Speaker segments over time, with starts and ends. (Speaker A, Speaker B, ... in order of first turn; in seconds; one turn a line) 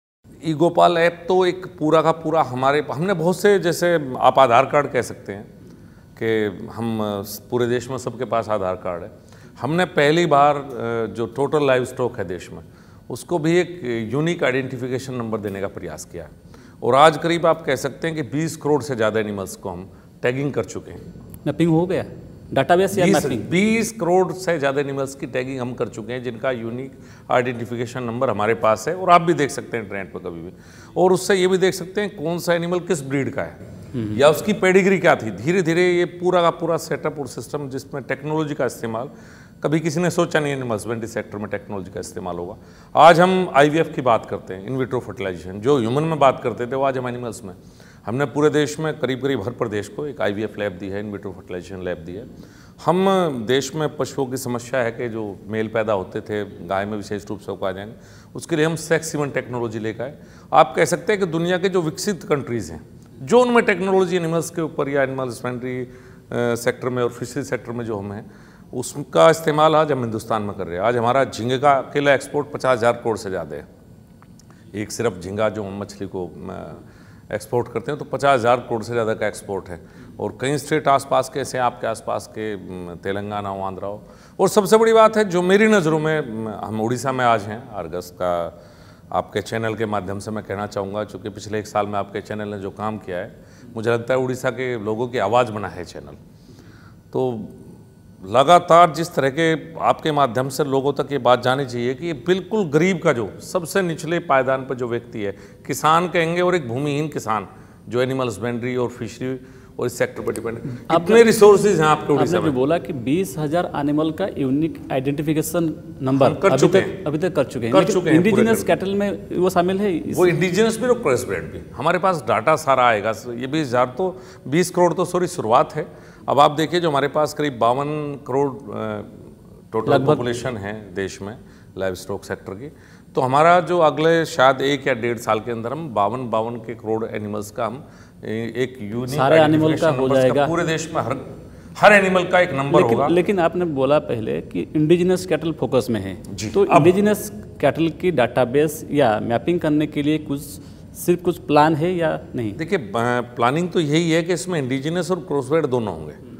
Speaker A: 0.4-5.5
Speaker A: 6.2-16.3
Speaker A: 16.8-21.0
Speaker B: 21.4-23.5
Speaker A: 22.9-33.6
Speaker A: 34.1-52.3
Speaker A: 52.8-73.7
Speaker A: 74.7-88.5
Speaker A: 89.1-96.2
Speaker A: 97.1-97.6
Speaker A: 98.2-112.5
Speaker B: 110.9-111.2
Speaker B: 112.2-120.3
Speaker A: 116.1-117.0
Speaker A: 117.7-118.7
Speaker A: 120.1-143.1
Speaker B: 129.9-130.2
Speaker B: 139.1-140.5
Speaker B: 142.7-152.6
Speaker A: 146.3-146.9
Speaker A: 152.6-156.2